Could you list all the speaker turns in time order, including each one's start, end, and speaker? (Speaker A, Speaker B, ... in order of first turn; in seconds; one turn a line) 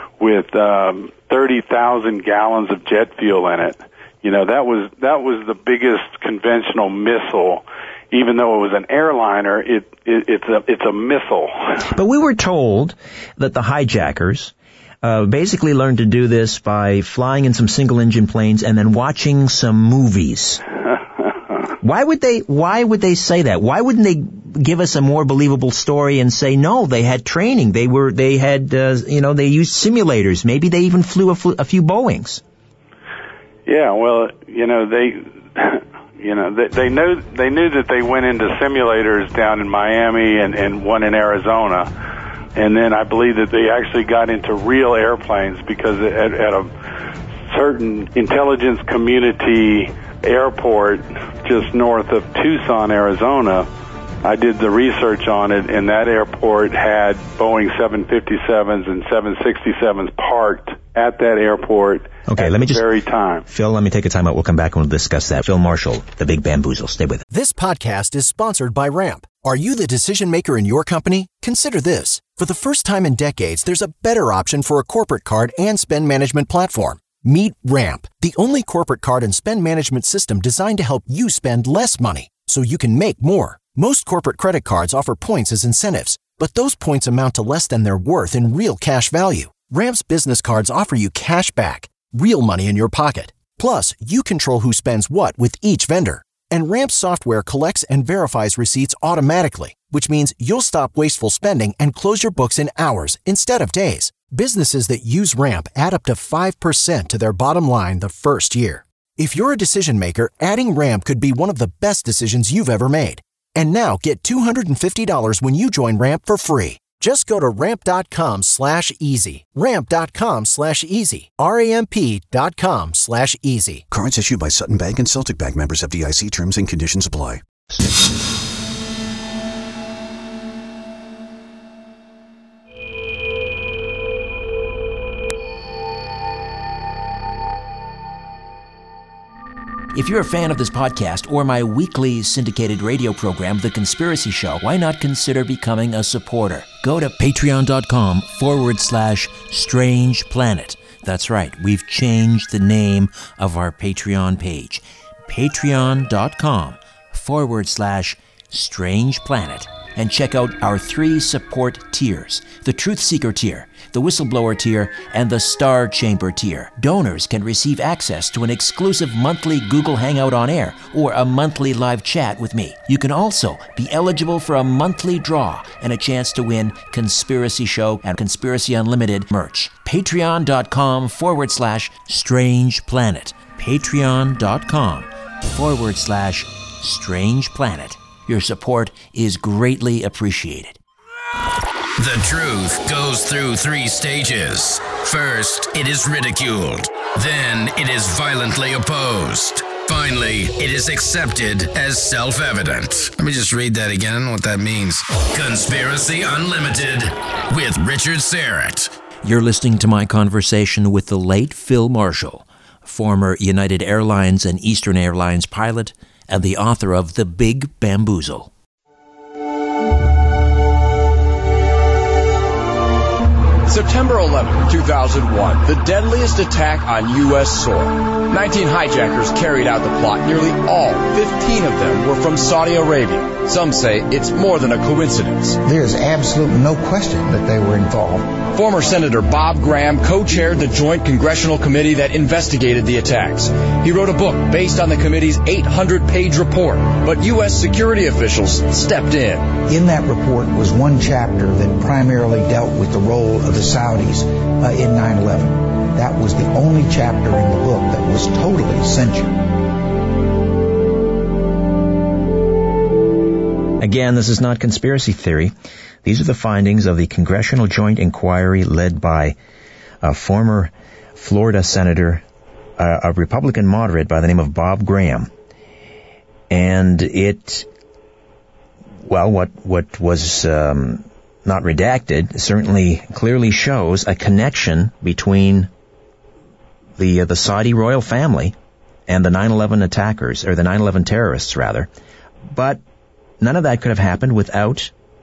Speaker A: 0.2-11.8
Speaker B: 11.9-20.6
Speaker B: 21.8-32.4
Speaker A: 33.6-41.9
Speaker A: 42.5-46.7
Speaker A: 47.5-53.7
Speaker A: 54.2-63.4
Speaker B: 62.3-62.8
Speaker B: 63.5-67.2
Speaker C: 67.3-123.8
Speaker D: 123.9-127.8
Speaker B: 139.9-190.8
Speaker E: 192.0-208.9
Speaker B: 209.2-218.5
Speaker F: 223.6-235.6
Speaker G: 235.6-238.4
Speaker F: 238.5-249.6
Speaker G: 249.7-259.5
Speaker B: 263.8-269.4
Speaker B: 270.0-272.2
Speaker B: 272.8-275.3
Speaker B: 276.5-277.7
Speaker B: 279.0-285.7
Speaker B: 287.0-288.5
Speaker B: 289.1-291.9
Speaker B: 292.5-292.8
Speaker B: 293.4-294.9